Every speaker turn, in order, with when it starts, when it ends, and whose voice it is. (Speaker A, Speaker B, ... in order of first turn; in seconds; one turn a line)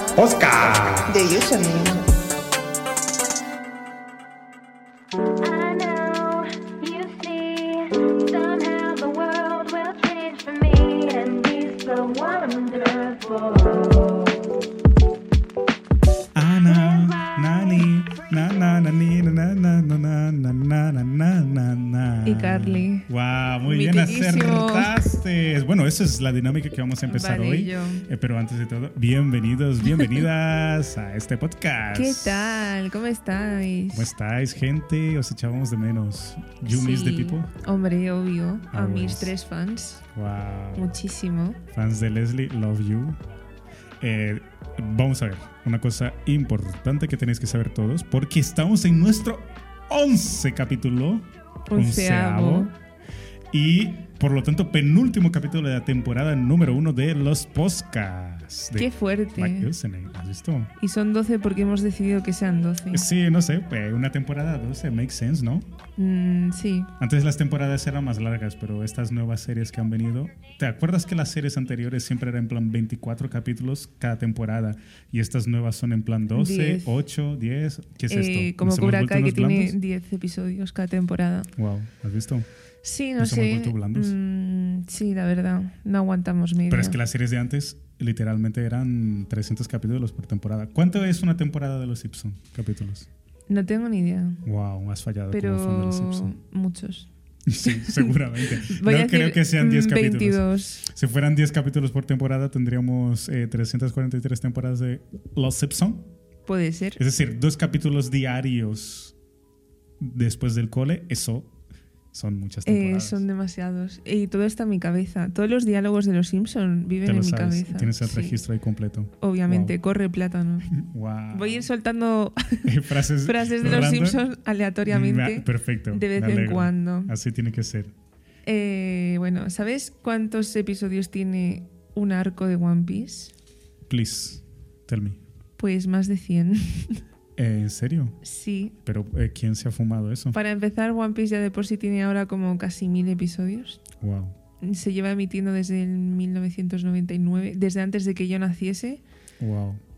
Speaker A: 0.2-1.3
Speaker B: 1.1-2.1
Speaker C: 5.3-14.4
Speaker A: 16.4-32.8
Speaker C: 16.7-17.9
Speaker B: 22.2-23.1
Speaker B: 23.6-24.9
Speaker B: 27.1-28.1
Speaker B: 31.9-34.1
Speaker A: 33.9-37.5
Speaker B: 36.7-40.0
Speaker A: 38.7-39.3
Speaker A: 40.1-40.9
Speaker B: 40.8-41.6
Speaker A: 41.7-43.2
Speaker A: 44.0-52.7
Speaker B: 51.7-52.7
Speaker A: 53.5-60.7
Speaker B: 58.8-59.7
Speaker B: 60.8-63.0
Speaker A: 62.9-65.7
Speaker B: 66.0-66.9
Speaker A: 67.0-79.8
Speaker B: 76.3-77.0
Speaker B: 78.1-81.5
Speaker A: 81.5-82.5
Speaker B: 82.8-87.0
Speaker A: 83.2-84.2
Speaker A: 86.7-93.1
Speaker B: 93.5-94.4
Speaker A: 94.4-96.3
Speaker B: 95.3-97.1
Speaker A: 97.5-106.1
Speaker B: 97.6-100.9
Speaker B: 106.5-107.0
Speaker A: 107.0-109.2
Speaker A: 110.0-111.5
Speaker A: 112.1-113.2
Speaker B: 112.7-118.4
Speaker A: 117.0-119.8
Speaker B: 119.2-120.7
Speaker A: 120.7-121.7
Speaker B: 121.3-127.1
Speaker A: 122.7-124.2
Speaker A: 124.9-127.9
Speaker B: 128.5-133.3
Speaker A: 133.9-135.2
Speaker B: 135.6-137.0
Speaker A: 137.4-138.2
Speaker B: 138.2-138.8
Speaker A: 138.8-140.4
Speaker B: 140.3-143.8
Speaker A: 144.0-144.3
Speaker B: 144.6-149.0
Speaker A: 149.4-149.8